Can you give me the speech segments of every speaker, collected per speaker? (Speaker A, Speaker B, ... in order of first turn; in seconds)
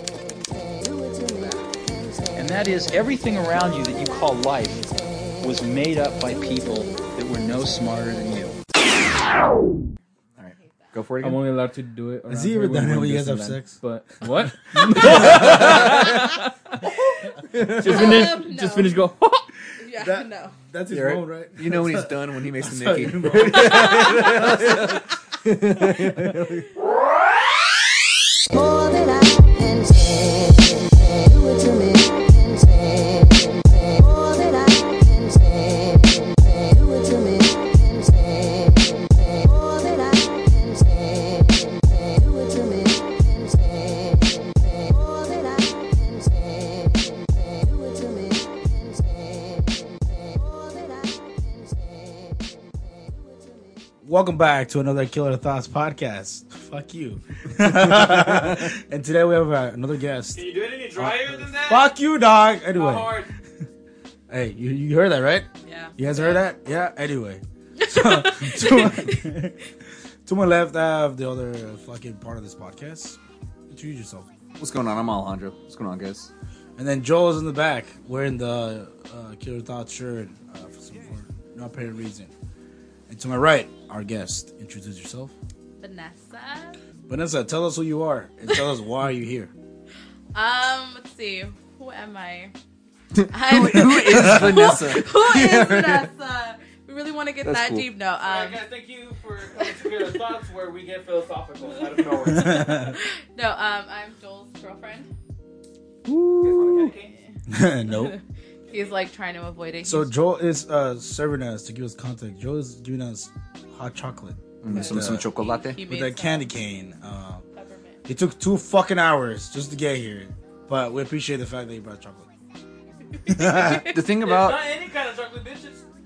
Speaker A: 1.3-1.7, 2.4-8.6
Speaker B: 10.4-11.4, 15.4-15.8, 17.6-18.0, 20.9-26.7, 74.6-76.3, 93.2-96.1, 97.5-97.9, 114.6-115.8, 123.5-124.6
Speaker C: 11.2-16.8, 17.5-19.5, 60.4-61.9, 62.7-63.4, 98.2-102.9, 106.4-107.1, 124.2-125.8
Speaker D: 12.3-15.9, 19.9-25.0, 25.9-26.4, 54.0-63.2, 64.3-69.7, 70.2-74.3, 76.8-82.3, 83.1-85.3, 87.1-89.5, 93.9-94.7, 102.2-102.9, 106.1-106.9, 107.5-108.2, 109.8-115.3, 115.8-117.5, 118.1-122.3, 123.3-123.8
Speaker E: 17.7-18.9, 19.8-20.6, 23.6-24.5, 65.7-66.4, 67.8-69.3, 85.8-86.8, 90.3-92.5, 93.3-98.6, 99.6-100.2, 101.6-105.1, 106.9-110.1, 114.7-116.5, 117.6-118.0, 123.2-124.0